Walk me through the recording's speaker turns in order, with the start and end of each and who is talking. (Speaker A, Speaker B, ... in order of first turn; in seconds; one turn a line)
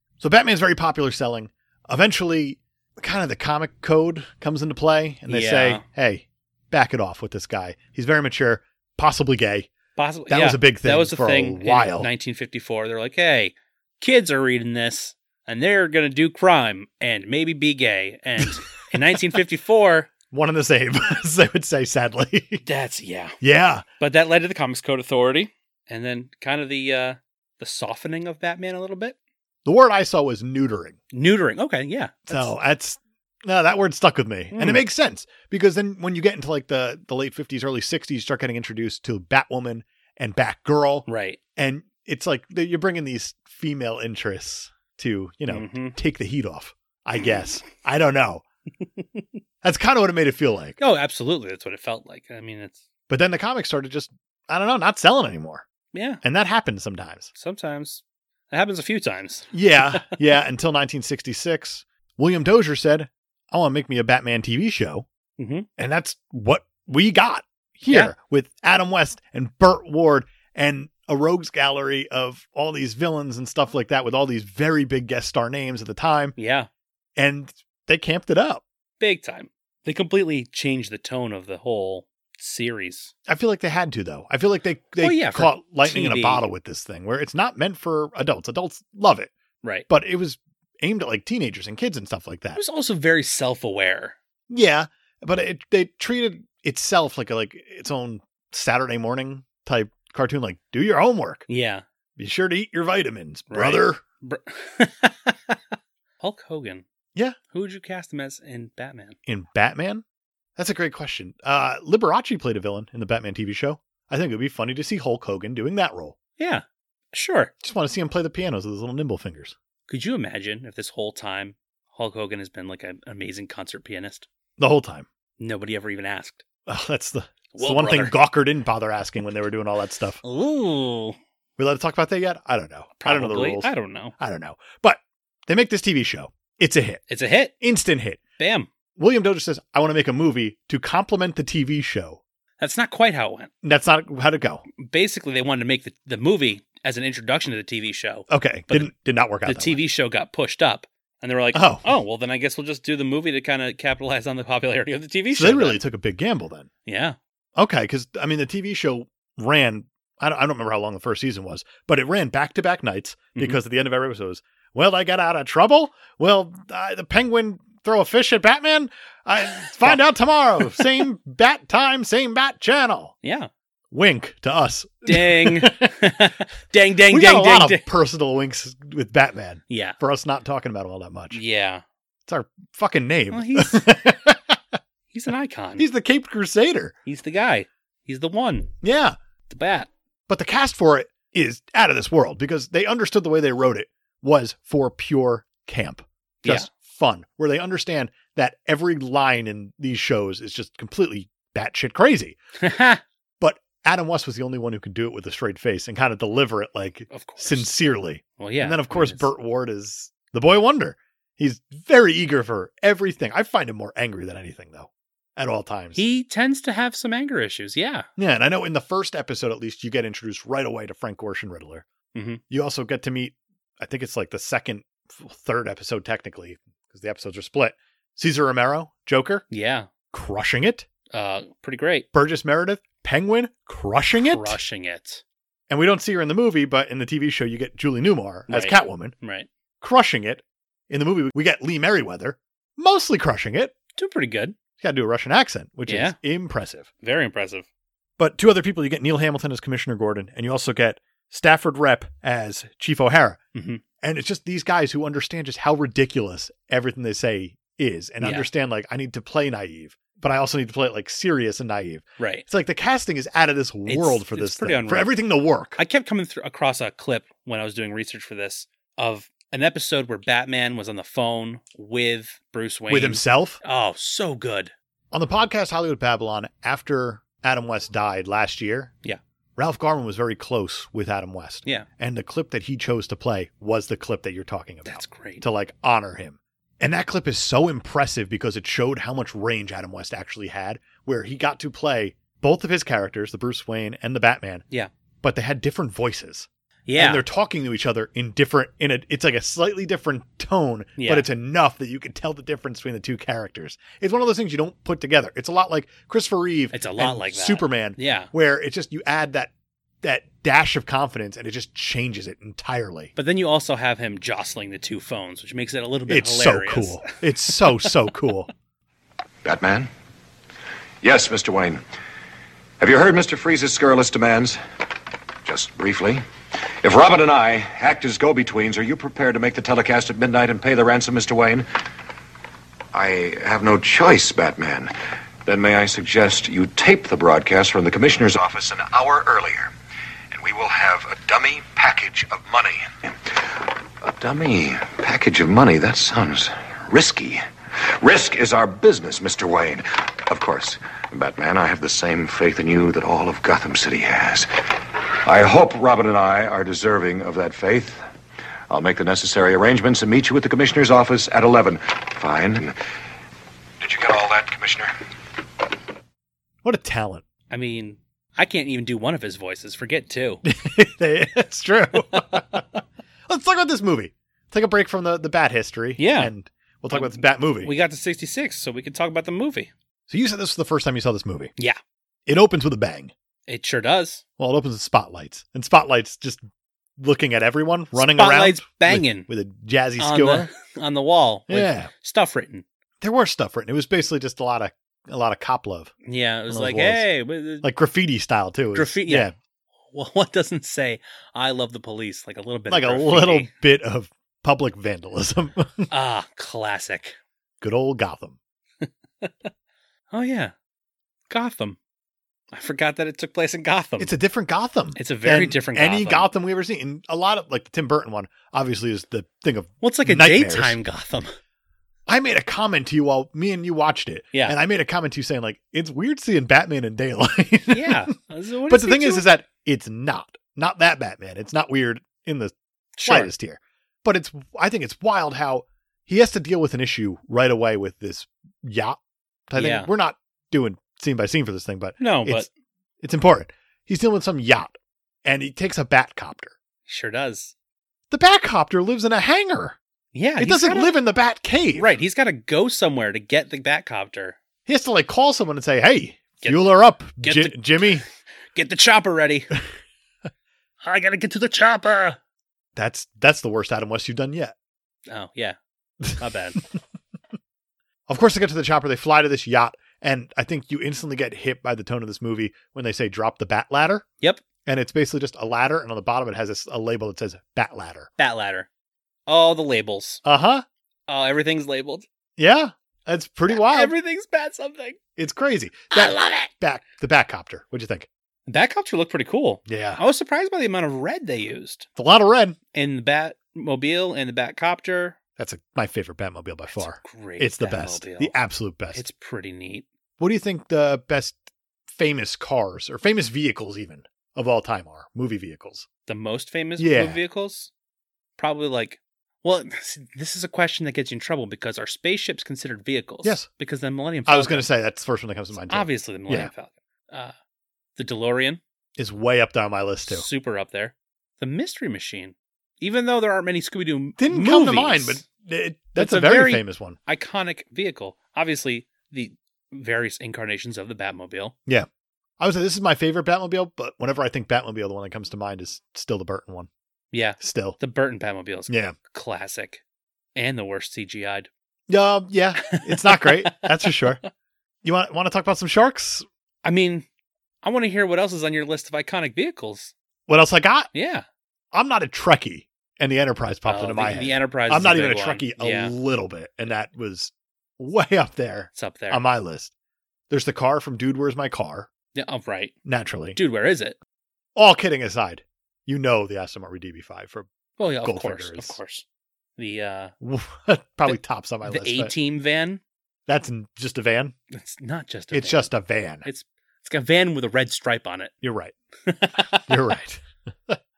Speaker A: 0.2-9.7
Speaker B: 5.3-5.8
Speaker B: 9.9-20.1
Speaker A: 10.3-12.1
Speaker A: 20.3-22.6
Speaker B: 22.6-23.4
Speaker A: 23.4-23.8
Speaker B: 24.0-29.1
Speaker A: 29.6-31.0
Speaker B: 31.1-32.5
Speaker A: 32.3-48.4
Speaker B: 34.5-34.9
Speaker B: 41.0-41.4
Speaker B: 45.5-46.0
Speaker A: 49.6-50.8
Speaker B: 50.8-52.8
Speaker A: 53.1-55.6
Speaker B: 55.9-56.2
Speaker A: 56.2-57.3
Speaker B: 57.3-60.2
Speaker A: 59.5-65.0
Speaker B: 65.4-65.7
Speaker A: 65.8-76.3
Speaker B: 67.9-68.1
Speaker B: 76.3-76.7
Speaker A: 77.2-78.6
Speaker B: 79.0-83.1
Speaker A: 83.3-89.3
Speaker B: 85.0-86.5
Speaker B: 89.6-89.9
Speaker A: 89.9-92.6
Speaker B: 92.5-94.2
Speaker A: 94.5-101.5
Speaker B: 101.5-101.8
Speaker A: 102.2-104.0
Speaker B: 103.5-106.8
Speaker B: 107.5-109.2
Speaker A: 109.2-110.0
Speaker A: 110.6-116.2
Speaker B: 116.4-117.5
Speaker A: 117.6-119.5
Speaker B: 119.9-124.3
Speaker A: 124.6-125.1
Speaker B: 125.4-126.4
Speaker A: 126.7-130.2
Speaker B: 127.5-128.2
Speaker B: 130.2-131.2
Speaker A: 131.6-137.0
Speaker B: 133.0-134.1
Speaker B: 137.1-137.5
Speaker A: 137.6-138.2
Speaker B: 138.4-138.7
Speaker A: 139.0-142.2
Speaker B: 142.6-143.5
Speaker A: 143.6-144.6
Speaker B: 144.8-148.9
Speaker A: 148.3-149.8
Speaker B: 149.4-155.8
Speaker A: 151.5-151.9
Speaker A: 155.3-156.7
Speaker B: 156.8-157.2
Speaker A: 157.6-173.1
Speaker B: 170.6-170.9
Speaker B: 173.2-173.5
Speaker A: 173.9-175.9
Speaker B: 175.1-177.8
Speaker A: 177.1-181.4
Speaker B: 179.7-180.0
Speaker B: 181.3-181.8
Speaker A: 182.3-184.6
Speaker B: 183.3-183.9
Speaker B: 185.1-185.9
Speaker A: 185.8-186.9
Speaker B: 187.1-188.7
Speaker A: 188.8-189.2
Speaker B: 189.5-189.9
Speaker A: 190.3-202.4
Speaker B: 196.4-196.7
Speaker B: 202.6-203.0
Speaker A: 203.4-216.0
Speaker B: 207.1-207.7
Speaker B: 208.4-209.3
Speaker B: 215.9-218.1
Speaker A: 218.2-221.8
Speaker B: 222.1-222.4
Speaker A: 222.5-229.4
Speaker B: 229.5-229.9
Speaker A: 230.1-230.9
Speaker B: 231.1-232.1
Speaker A: 232.1-234.6
Speaker B: 234.2-235.2
Speaker A: 235.7-239.1
Speaker B: 238.5-239.5
Speaker A: 239.8-243.7
Speaker B: 243.9-244.6
Speaker A: 244.8-246.9
Speaker B: 245.9-246.2
Speaker B: 247.0-247.7
Speaker A: 248.2-253.4
Speaker B: 253.5-253.8
Speaker A: 254.0-265.8
Speaker B: 258.2-258.5
Speaker B: 262.2-262.4
Speaker B: 263.9-265.1
Speaker B: 265.8-274.7
Speaker A: 272.9-273.6
Speaker A: 275.1-278.9
Speaker A: 279.6-294.6
Speaker B: 284.9-285.4
Speaker A: 295.2-309.5
Speaker B: 296.9-297.2
Speaker B: 301.0-301.2
Speaker B: 306.7-308.3
Speaker A: 310.0-313.1
Speaker B: 313.1-317.9
Speaker A: 316.1-318.5
Speaker C: 319.4-319.9
Speaker C: 321.0-321.8
Speaker C: 322.8-324.6
Speaker C: 325.4-326.2
Speaker C: 326.8-331.7
Speaker C: 332.9-334.9
Speaker C: 335.4-339.7
Speaker C: 340.3-354.5
Speaker C: 355.2-358.0
Speaker C: 358.7-362.8
Speaker C: 363.8-364.9
Speaker A: 366.6-367.2
Speaker B: 367.5-370.4
Speaker A: 370.4-372.6
Speaker B: 372.1-372.6
Speaker A: 373.3-377.7
Speaker B: 376.0-376.3
Speaker B: 376.9-379.7
Speaker A: 380.1-381.5
Speaker A: 382.2-383.1
Speaker B: 383.5-384.2
Speaker A: 384.4-386.4
Speaker A: 387.0-390.5
Speaker B: 387.9-389.3
Speaker B: 390.0-392.6
Speaker A: 391.5-391.9
Speaker A: 393.0-395.9
Speaker B: 396.1-397.7
Speaker A: 396.5-397.1
Speaker A: 397.6-399.3
Speaker B: 398.7-399.3
Speaker B: 399.9-403.5
Speaker A: 402.7-405.9
Speaker B: 405.9-407.2
Speaker A: 407.6-408.4
Speaker B: 408.8-409.5
Speaker B: 410.1-410.5
Speaker B: 411.3-411.8
Speaker B: 412.5-414.1
Speaker A: 414.0-420.8
Speaker B: 414.9-416.3
Speaker B: 419.8-421.3
Speaker A: 422.1-428.1
Speaker B: 427.7-429.3
Speaker A: 428.7-439.0
Speaker B: 433.0-433.3
Speaker A: 439.5-442.4
Speaker B: 439.5-439.9
Speaker B: 442.0-442.5
Speaker A: 443.0-446.5
Speaker B: 446.9-447.5
Speaker A: 448.1-449.8
Speaker B: 450.1-450.9
Speaker A: 450.4-451.9
Speaker B: 451.8-454.4
Speaker A: 454.6-458.0
Speaker B: 456.4-458.0
Speaker B: 458.5-459.6
Speaker B: 460.8-462.2
Speaker A: 462.7-464.5
Speaker B: 465.1-465.6
Speaker B: 466.1-466.6
Speaker A: 468.1-474.0
Speaker A: 474.6-478.1
Speaker B: 478.2-478.7
Speaker B: 479.3-480.2
Speaker A: 480.2-480.6
Speaker B: 481.1-482.1
Speaker A: 482.4-483.9
Speaker B: 483.5-485.0
Speaker A: 485.2-488.1
Speaker B: 485.9-486.5
Speaker B: 488.5-491.9
Speaker A: 489.7-490.0
Speaker A: 491.9-492.6
Speaker B: 492.7-495.2
Speaker A: 495.4-499.0
Speaker B: 496.8-498.3
Speaker B: 498.9-499.9
Speaker A: 500.2-505.9
Speaker B: 506.1-507.7
Speaker A: 506.8-507.2
Speaker B: 508.4-514.7
Speaker A: 514.3-516.5
Speaker B: 515.6-517.3
Speaker B: 518.0-518.6
Speaker A: 519.0-520.2
Speaker B: 520.0-525.2
Speaker A: 524.2-527.0
Speaker B: 526.0-531.5
Speaker A: 532.4-536.7
Speaker B: 537.1-539.8
Speaker A: 537.4-537.8
Speaker A: 538.7-538.9
Speaker B: 540.4-541.5
Speaker A: 541.9-544.2
Speaker B: 542.7-544.0
Speaker A: 544.8-546.2
Speaker B: 546.6-547.0
Speaker B: 547.6-549.9
Speaker A: 550.3-550.9
Speaker B: 550.9-551.2
Speaker A: 551.7-559.7
Speaker B: 553.6-555.9
Speaker B: 558.7-559.2
Speaker A: 560.3-561.9
Speaker B: 562.1-562.7
Speaker A: 562.8-563.4
Speaker B: 563.3-564.0
Speaker A: 564.5-567.5
Speaker B: 567.8-569.0
Speaker A: 568.0-568.8
Speaker B: 569.6-570.1
Speaker A: 570.2-572.1
Speaker B: 571.1-572.8
Speaker A: 573.3-574.3
Speaker B: 574.5-575.7
Speaker A: 575.3-576.3
Speaker B: 576.2-578.3
Speaker A: 578.4-578.7
Speaker B: 579.0-579.9
Speaker A: 579.6-580.8